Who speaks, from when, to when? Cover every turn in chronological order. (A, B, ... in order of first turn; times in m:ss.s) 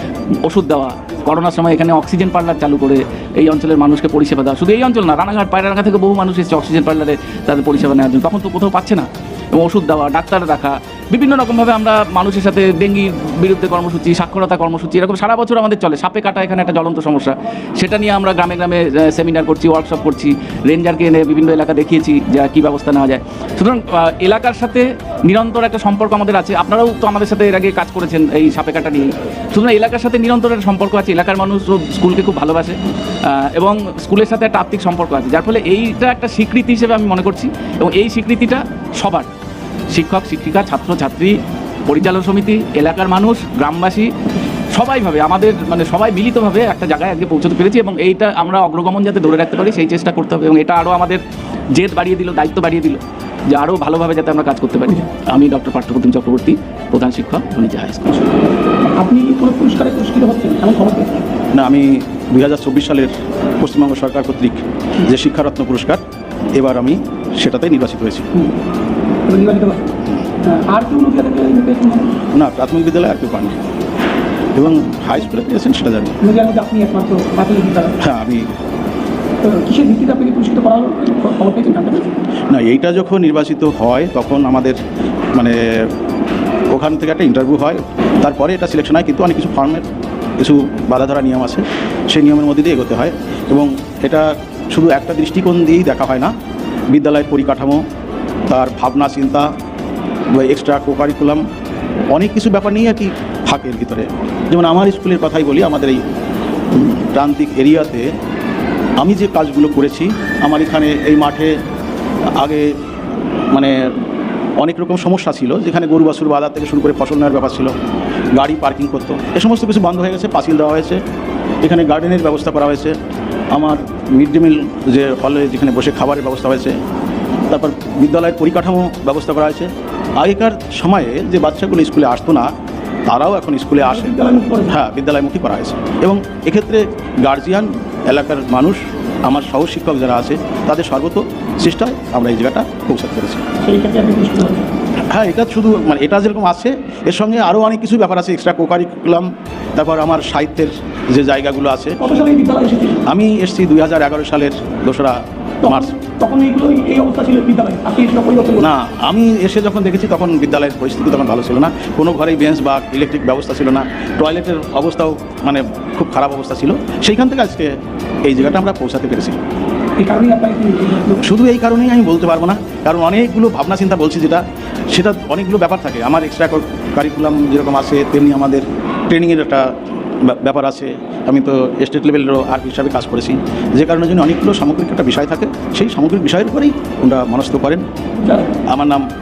0:00.4-0:39.3 A
0:39.9-0:41.4 A
0:41.9-0:44.1 A
0:44.7-0:51.2 A
0:51.7-0:58.3 A
0:58.9-1:01.2 B
1:01.5-1:06.0 C
1:06.6-1:08.2 C
1:09.2-1:09.9 B
1:10.4-1:12.1 B
1:12.3-1:13.6 C
1:14.5-1:16.2 C
1:16.2-1:17.9 B
1:18.0-1:18.5 C
1:19.4-1:22.1 B
1:22.5-1:24.8 C
1:25.3-1:25.9 C
1:26.7-1:29.8 C
1:30.4-1:36.3 C
1:36.9-1:37.8 C
1:38.5-1:39.5 C
1:40.3-1:41.4 C
1:42.1-1:46.0 C
1:46.7-1:48.1 C
1:49.0-1:51.6 C
1:52.4-1:52.8 C
1:53.5-1:54.0 C
1:54.6-1:57.7 C
1:58.3-2:01.0 C
2:01.6-2:03.0 C
2:03.5-2:06.8 C
2:07.5-2:12.5 C
2:13.1-2:23.4 C
2:13.9-2:14.7 B
2:23.6-2:24.7 B
2:25.1-2:32.0 C
2:32.0-2:33.0 B
2:33.1-2:35.9 C
2:35.6-2:38.6 B
2:38.6-2:49.4 C
2:50.0-2:51.2 B
2:51.2-3:07.8 C
3:08.7-3:09.0 C